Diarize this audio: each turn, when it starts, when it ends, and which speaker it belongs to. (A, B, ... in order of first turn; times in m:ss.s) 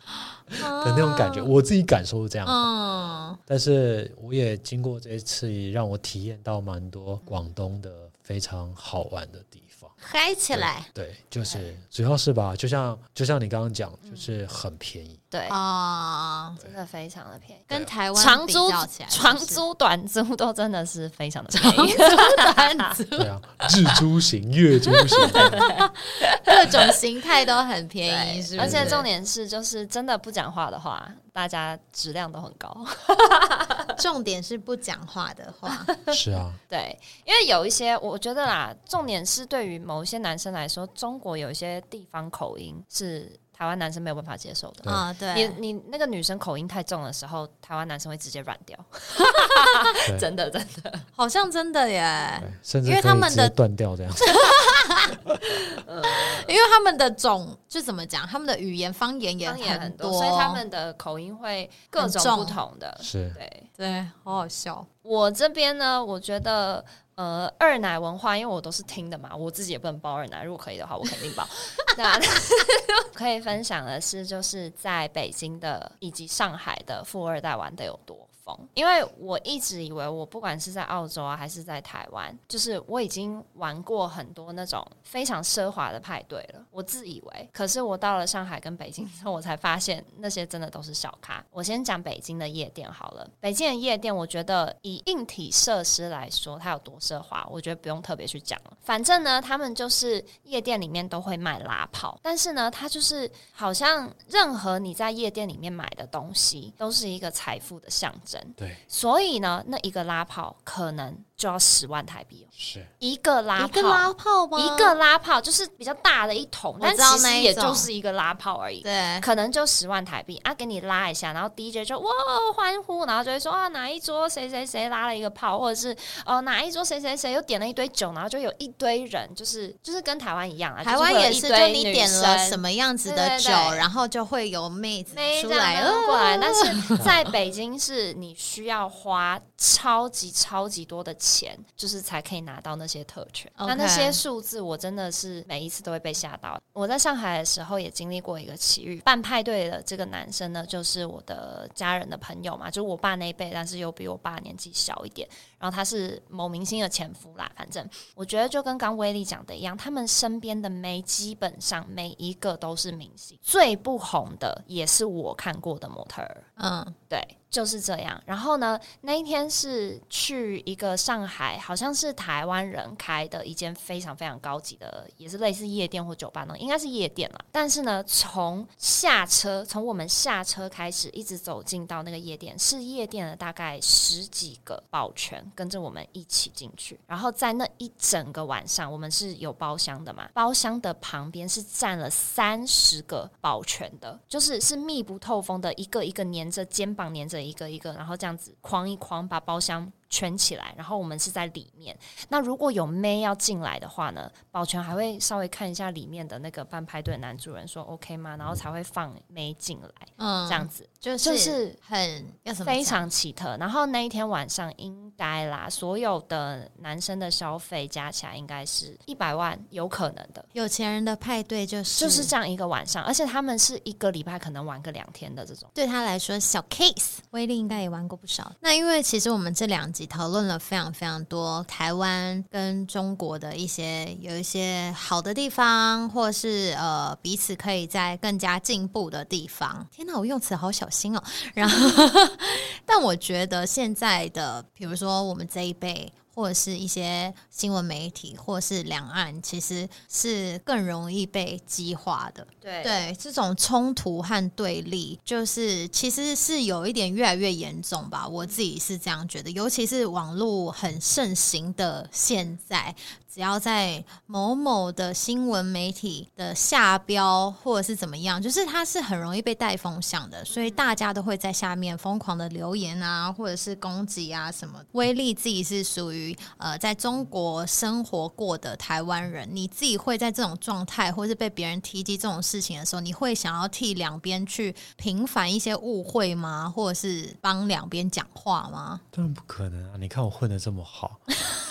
0:00.3-0:01.5 A
0:00.5-0:02.7 B
0:02.5-0:03.4 A
0:03.5-0:09.9 B
0:10.0-0:10.9 A
0:10.5-0:15.2 B
0:14.0-0:14.3 C
0:15.3-0:15.6 C
0:15.5-0:16.6 A
0:16.6-0:22.9 C
0:17.7-0:19.6 A
0:21.6-0:23.3 A
0:23.2-0:25.7 B
0:25.2-0:25.8 C
0:25.3-0:29.1 A
0:26.3-0:26.9 C
0:28.0-0:33.9 C
0:28.6-0:29.1 B
0:34.0-0:36.0 A
0:35.7-0:36.0 C
0:36.1-0:36.6 B
0:36.7-0:51.1 C
0:44.9-0:45.6 A
0:51.2-0:53.5 A
0:52.4-0:54.5 B
0:54.2-1:00.6 A
0:55.8-0:56.5 C
0:59.4-1:03.7 C
1:02.0-1:02.6 A
1:03.0-1:03.4 B
1:03.8-1:04.9 A
1:05.0-2:13.9 C
1:52.6-1:52.9 B
1:53.6-1:55.0 A
1:56.8-1:57.9 A
1:58.8-1:59.3 A
2:10.8-2:17.0 A
2:15.1-2:46.4 C
2:23.6-2:24.2 A
2:46.6-2:47.0 A
2:47.1-3:31.8 C
3:30.2-3:33.0 A
3:32.6-3:40.5 C
3:40.5-3:42.3 A
3:41.9-3:45.7 C
3:45.8-4:49.0 A
4:12.6-4:13.0 C
4:30.5-4:30.8 C
4:49.1-4:51.3 B